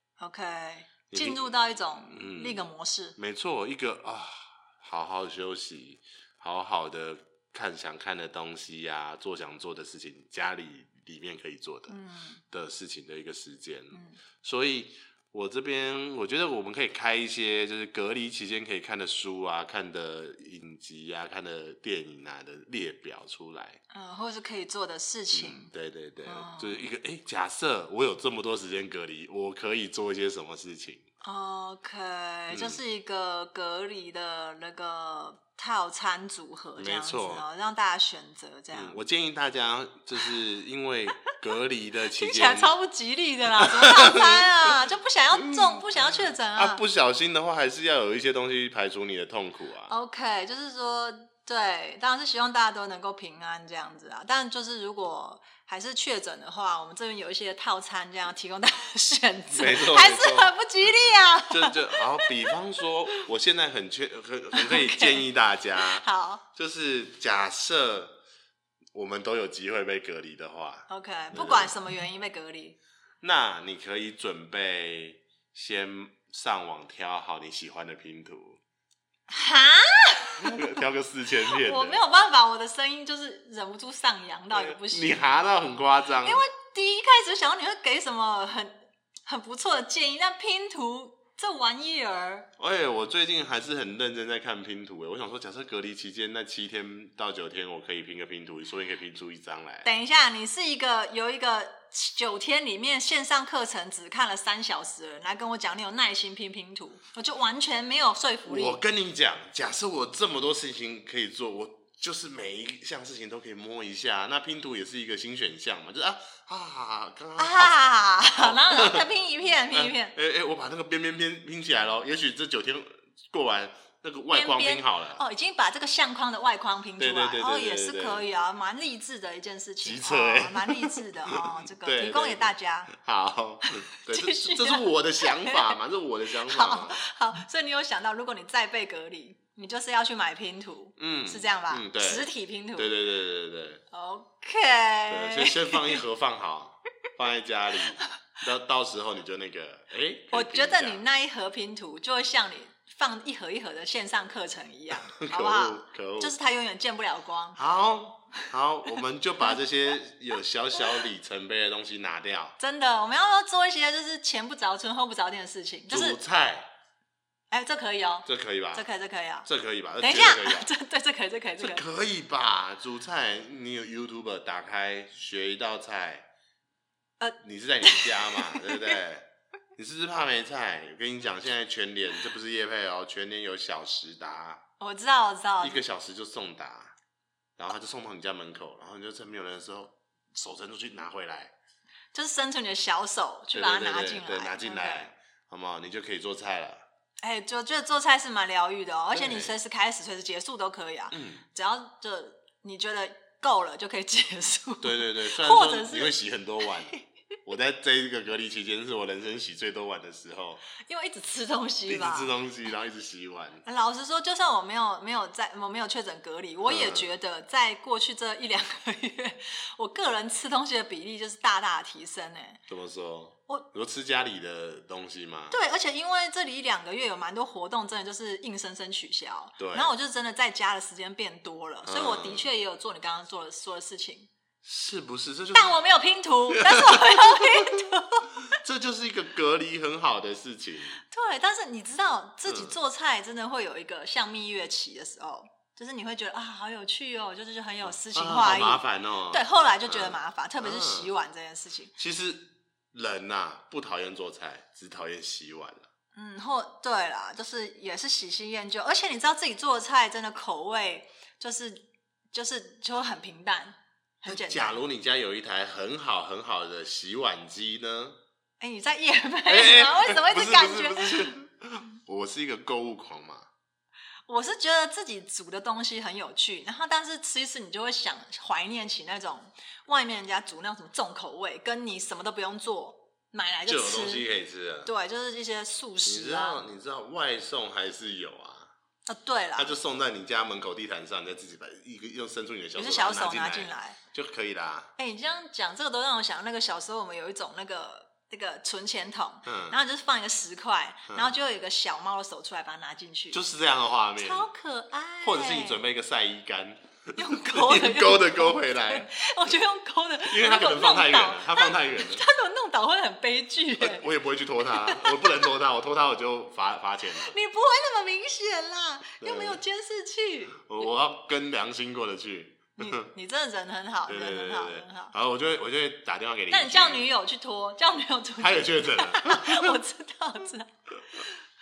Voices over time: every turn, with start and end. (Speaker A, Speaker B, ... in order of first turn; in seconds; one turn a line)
Speaker A: 0.2-3.2
Speaker B: 1.1-1.5
Speaker B: 2.0-12.0
Speaker A: 11.9-12.4
Speaker B: 12.5-23.8
Speaker A: 13.9-14.2
Speaker A: 23.9-25.7
Speaker B: 25.3-31.1
Speaker A: 26.2-26.8
Speaker A: 31.2-39.0
Speaker B: 32.5-32.8
Speaker B: 36.8-37.5
Speaker B: 38.7-42.7
Speaker A: 42.1-46.8
Speaker B: 43.5-44.8
Speaker B: 45.4-50.0
Speaker A: 49.9-62.6
Speaker B: 59.5-68.2
Speaker A: 64.5-66.4
Speaker B: 68.9-71.8
Speaker A: 70.9-72.8
Speaker B: 73.2-78.6
Speaker A: 79.3-80.8
Speaker B: 80.4-82.0
Speaker A: 81.5-85.3
Speaker B: 84.5-86.4
Speaker A: 86.2-92.5
Speaker B: 92.6-99.9
Speaker A: 99.8-108.8
Speaker B: 108.5-119.1
Speaker A: 117.4-120.2
Speaker B: 119.7-125.2
Speaker A: 124.3-132.9
Speaker B: 127.0-128.3
Speaker B: 129.8-137.0
Speaker A: 133.7-135.8
Speaker A: 136.4-142.9
Speaker B: 141.0-143.8
Speaker A: 143.9-146.0
Speaker B: 145.1-151.0
Speaker A: 150.3-157.6
Speaker B: 155.1-156.3
Speaker B: 157.6-162.6
Speaker A: 162.6-166.2
Speaker B: 165.9-166.7
Speaker A: 167.5-169.5
Speaker B: 168.3-168.9
Speaker B: 169.4-170.7
Speaker A: 170.0-171.8
Speaker B: 171.6-176.3
Speaker A: 177.2-179.0
Speaker B: 177.4-184.6
Speaker A: 184.8-185.8
Speaker B: 185.6-186.9
Speaker B: 187.6-191.6
Speaker A: 192.1-195.1
Speaker B: 193.5-196.8
Speaker A: 197.2-207.0
Speaker B: 199.2-199.6
Speaker B: 201.1-201.4
Speaker B: 204.8-210.6
Speaker A: 210.8-212.3
Speaker B: 211.9-213.7
Speaker A: 213.7-222.6
Speaker B: 216.7-217.1
Speaker B: 222.7-225.6
Speaker A: 225.5-234.3
Speaker B: 229.6-229.9
Speaker B: 231.9-232.5
Speaker B: 234.6-235.8
Speaker A: 235.5-238.6
Speaker B: 236.5-241.0
Speaker A: 241.0-251.9
Speaker B: 242.4-242.8
Speaker B: 247.9-251.1
Speaker B: 252.0-255.9
Speaker A: 256.1-264.8
Speaker B: 264.2-268.2
Speaker A: 268.6-271.4
Speaker B: 269.5-273.5
Speaker A: 274.3-284.3
Speaker B: 283.7-284.9
Speaker A: 284.9-286.6
Speaker B: 286.0-288.7
Speaker A: 289.1-289.7
Speaker B: 289.6-294.9
Speaker A: 292.8-294.0
Speaker A: 295.0-303.4
Speaker B: 299.5-299.8
Speaker B: 301.1-301.3
Speaker B: 303.3-304.5
Speaker A: 304.2-305.8
Speaker B: 305.2-309.1
Speaker A: 307.2-314.1
Speaker B: 310.2-312.3
Speaker B: 313.8-317.4
Speaker A: 314.7-315.5
Speaker A: 317.2-320.9
Speaker B: 319.2-319.6
Speaker B: 320.6-323.1
Speaker A: 322.8-325.1
Speaker B: 324.1-327.1
Speaker A: 326.5-331.4
Speaker B: 328.4-329.8